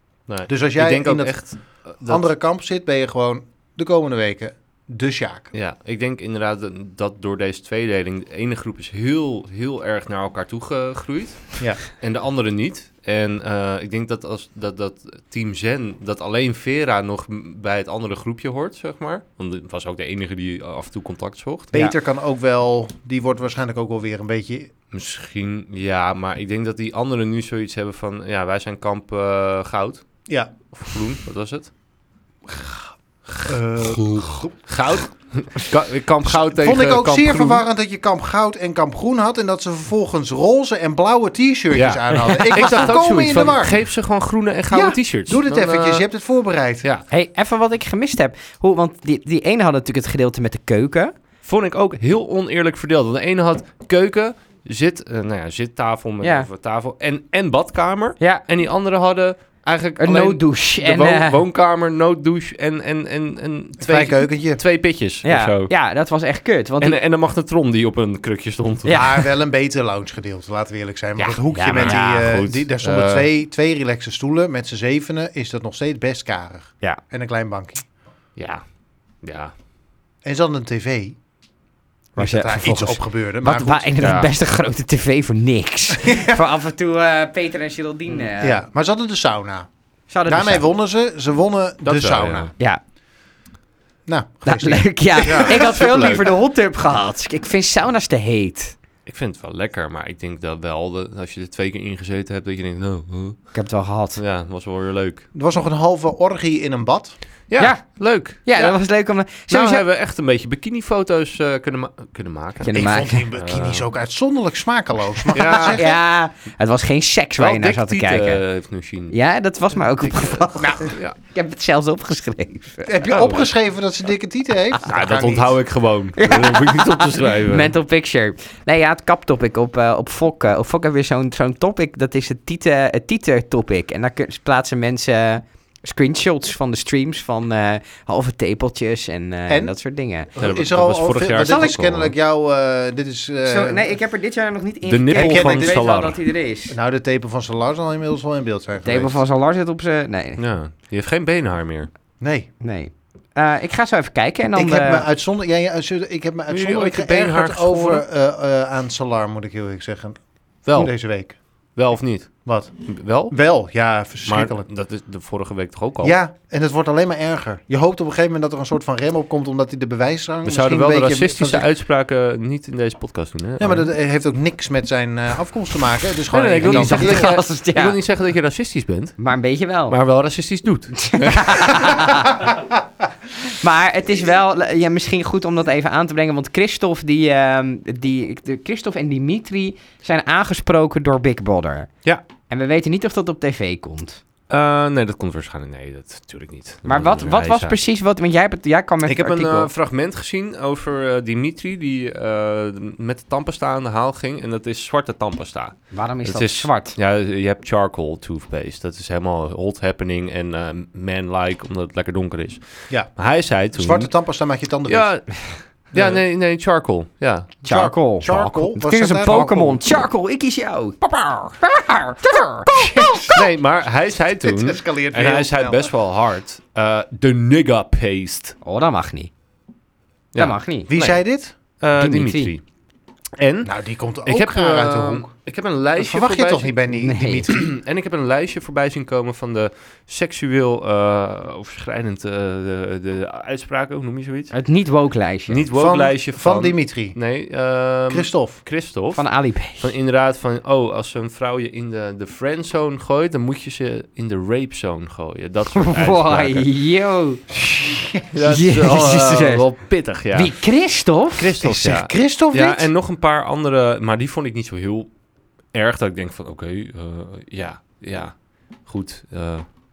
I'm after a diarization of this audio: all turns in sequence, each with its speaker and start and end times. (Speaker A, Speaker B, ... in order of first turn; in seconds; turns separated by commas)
Speaker A: 0.3-2.3, Speaker B: 0.5-1.4, Speaker B: 2.0-5.5, Speaker A: 5.5-21.7, Speaker B: 21.7-24.7, Speaker A: 24.9-30.1, Speaker B: 30.3-30.5, Speaker A: 30.7-31.7, Speaker A: 33.3-37.6, Speaker B: 33.5-34.5, Speaker B: 36.3-43.8, Speaker A: 41.7-46.0, Speaker C: 42.5-43.4, Speaker B: 44.7-46.9, Speaker C: 47.1-51.1, Speaker A: 51.4-65.7, Speaker C: 56.2-56.5, Speaker C: 60.0-61.4, Speaker B: 63.8-64.6, Speaker C: 65.2-67.0, Speaker A: 66.8-69.1, Speaker C: 68.9-69.2, Speaker B: 68.9-77.9, Speaker A: 71.2-73.3, Speaker C: 71.5-72.3, Speaker A: 78.4-78.6, Speaker A: 79.2-79.5, Speaker B: 80.2-81.2, Speaker B: 82.2-83.9, Speaker C: 82.2-88.6, Speaker A: 84.0-84.3, Speaker B: 86.0-86.4, Speaker B: 88.4-89.7, Speaker C: 90.1-90.6, Speaker B: 90.3-92.5, Speaker A: 91.8-92.5, Speaker B: 94.1-96.3, Speaker C: 94.5-98.8, Speaker A: 95.2-96.2, Speaker A: 99.1-103.5, Speaker C: 103.5-104.2, Speaker A: 104.2-105.2, Speaker B: 105.3-107.1, Speaker A: 107.5-108.8, Speaker C: 107.6-107.8, Speaker C: 108.4-109.8, Speaker A: 109.5-113.9, Speaker C: 112.6-113.3, Speaker B: 112.7-116.0, Speaker A: 115.3-115.8, Speaker C: 115.6-118.4, Speaker A: 117.4-119.2, Speaker C: 119.1-122.9, Speaker A: 119.8-121.2, Speaker B: 120.6-120.9, Speaker B: 122.8-125.5, Speaker A: 123.1-123.5, Speaker A: 124.8-127.7, Speaker C: 126.2-140.3, Speaker B: 139.5-139.7, Speaker B: 140.3-143.9, Speaker A: 140.4-142.1, Speaker C: 141.4-141.7, Speaker C: 143.4-146.8, Speaker A: 144.9-146.2, Speaker B: 145.1-145.9, Speaker B: 146.7-149.2, Speaker C: 148.8-150.4, Speaker A: 150.4-151.9, Speaker B: 152.2-152.5, Speaker C: 152.6-155.1, Speaker B: 154.5-160.2, Speaker A: 156.5-158.0, Speaker A: 160.7-160.9, Speaker B: 160.7-161.4, Speaker A: 161.8-163.3, Speaker B: 162.4-162.7, Speaker B: 163.3-164.7, Speaker A: 164.3-166.2, Speaker B: 166.0-171.7, Speaker A: 170.4-173.9, Speaker B: 173.6-177.3, Speaker A: 176.3-179.2, Speaker C: 176.6-178.0, Speaker C: 179.2-180.0, Speaker A: 179.9-182.1, Speaker C: 181.0-182.6, Speaker C: 183.4-191.9, Speaker C: 192.5-194.2, Speaker A: 194.5-197.8, Speaker C: 196.9-199.7, Speaker A: 199.1-214.1, Speaker C: 205.9-206.9, Speaker B: 213.7-215.1, Speaker A: 214.9-217.6, Speaker B: 215.9-216.2, Speaker C: 217.6-223.4, Speaker B: 217.7-219.8, Speaker B: 222.7-223.4, Speaker A: 223.3-228.6, Speaker B: 224.4-225.9, Speaker C: 228.6-229.3, Speaker A: 230.3-231.2, Speaker C: 230.4-230.9, Speaker B: 230.9-231.6, Speaker A: 231.8-232.6, Speaker C: 232.0-232.5, Speaker A: 233.4-233.7, Speaker B: 233.6-235.3, Speaker A: 234.2-236.8, Speaker B: 236.0-237.7, Speaker C: 236.9-237.5, Speaker A: 237.5-244.5, Speaker C: 244.5-245.6, Speaker A: 245.5-256.7, Speaker B: 245.8-247.2, Speaker B: 248.1-248.6, Speaker C: 249.2-249.9, Speaker C: 255.8-257.4, Speaker B: 257.7-258.3, Speaker A: 258.3-260.6, Speaker C: 258.4-259.6, Speaker C: 260.3-261.5, Speaker A: 261.4-265.1, Speaker B: 261.6-262.9, Speaker A: 265.7-269.7